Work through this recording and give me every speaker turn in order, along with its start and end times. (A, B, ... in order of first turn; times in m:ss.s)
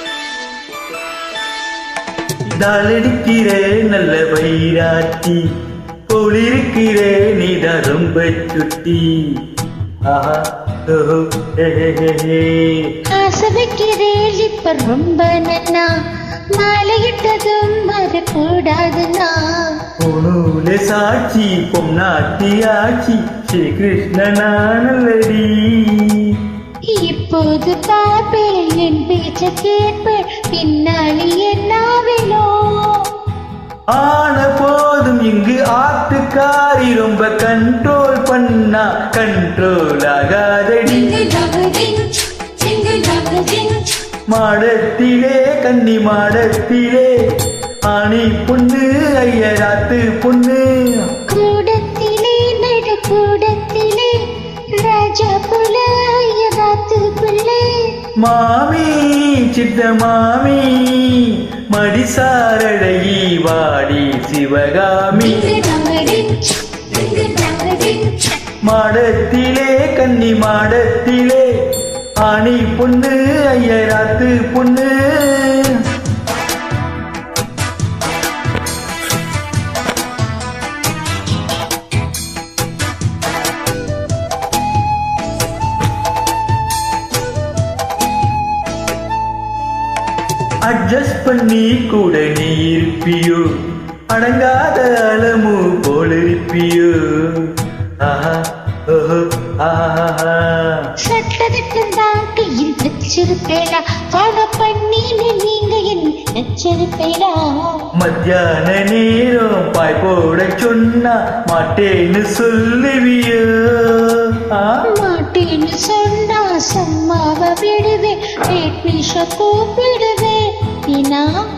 0:02.5-0:05.4 A
0:06.1-0:09.4 A
0:10.0-0:12.9 A
0:13.1-0:15.9 B
0:16.5-0:19.6 B
0:20.0-0:26.4 A
0:26.9-0:33.0 B
0:33.9-0:41.2 A
0:40.8-0:43.9 B
0:44.3-0:47.2 A
0:47.8-0:51.1 A
0:51.3-0:54.2 B
0:54.8-0:57.8 B
0:58.2-1:05.6 A
1:05.1-1:08.4 B
1:08.6-1:15.8 A
1:30.6-1:33.5 A
1:34.1-1:40.8 A
1:41.0-1:47.8 B
1:48.0-1:54.8 A
1:54.9-2:01.3 B